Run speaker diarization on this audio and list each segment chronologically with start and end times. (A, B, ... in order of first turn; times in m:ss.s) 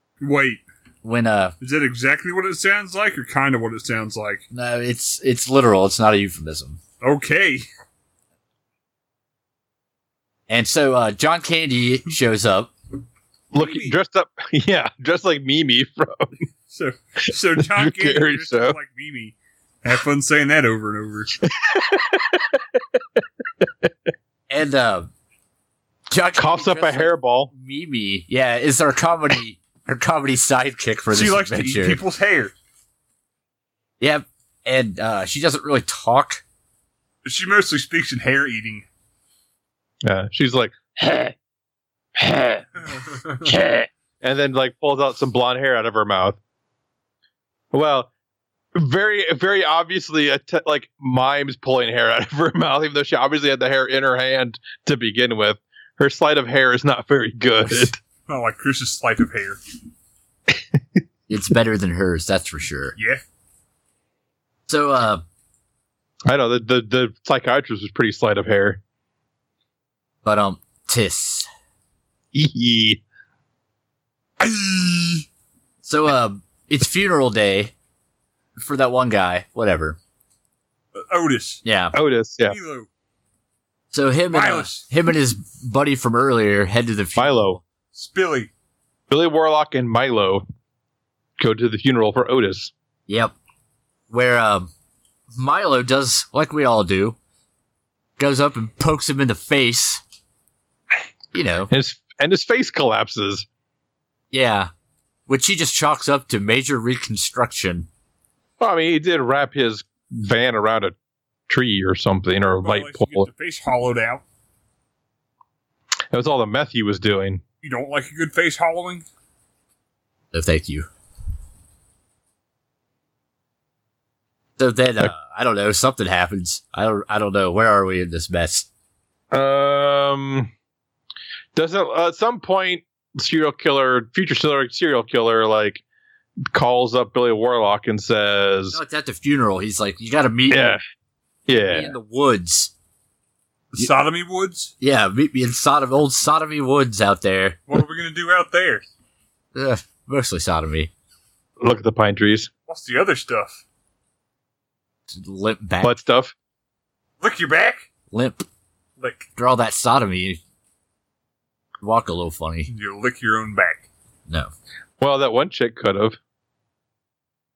0:00.2-0:00.6 A
0:01.0-0:01.5 B
0:01.6-0:04.4 A
0:04.5-0:06.8 B
0:07.0-0:07.6 A
0:10.5-0:12.7 B
0:13.5-0:16.3 C
0:13.5-0:14.0 A
0:16.7-0:21.3 A
0:17.6-0:18.8 C
0:21.4-0:23.9 C
0:24.5-0:25.1 B
0:26.1-0:32.0 B
0:26.4-0:27.5 C
0:31.1-0:32.5 A
0:34.0-0:36.4 B
0:37.2-0:38.8 A
0:40.0-0:41.3 C
0:42.2-0:42.7 C
0:43.4-0:46.4 C
0:47.7-0:48.1 C
0:48.7-0:58.0 C
0:58.3-0:59.6 A
1:01.3-1:03.0 B
1:04.7-1:05.2 B
1:06.3-1:08.8 C
1:10.2-1:11.5 B
1:12.3-1:13.0 C
1:14.4-1:15.2 A
1:15.8-1:17.7 B
1:18.6-1:20.0 B
1:20.9-1:21.6 A
1:21.6-1:21.9 B
1:21.9-1:22.6 C
1:22.4-1:22.9 A
1:23.9-1:27.6 B
1:24.3-1:24.9 A
1:27.2-1:27.6 C
1:27.9-1:28.5 A
1:29.1-1:30.4 C
1:31.4-1:32.7 C
1:33.1-1:33.3 B
1:34.1-1:34.7 B
1:35.3-1:37.2 B
1:38.2-1:40.0 B
1:41.3-1:41.7 B
1:41.7-1:43.4 C
1:44.3-1:44.7 B
1:45.3-1:47.9 B
1:48.6-1:50.9 C
1:51.5-1:53.3 C
1:52.6-1:54.2 A
1:56.1-1:57.4 C
1:57.6-1:59.0 A
2:00.3-2:00.9 B
2:04.6-2:08.7 B
2:09.3-2:10.5 C
2:11.5-2:15.8 C
2:16.5-2:18.8 C
2:18.7-2:20.8 B
2:20.5-2:20.8 C
2:21.5-2:21.9 C
2:21.7-2:22.7 B
2:23.7-2:24.7 A
2:24.8-2:27.6 B
2:27.7-2:28.9 A
2:29.5-2:30.9 B
2:31.6-2:32.5 C
2:32.7-2:33.6 A
2:35.1-2:36.0 B
2:35.8-2:36.3 C
2:37.2-2:37.9 A
2:38.1-2:38.4 B
2:39.0-2:39.3 A
2:39.4-2:40.4 B
2:41.8-2:42.7 B
2:42.7-2:43.9 A
2:45.0-2:46.2 C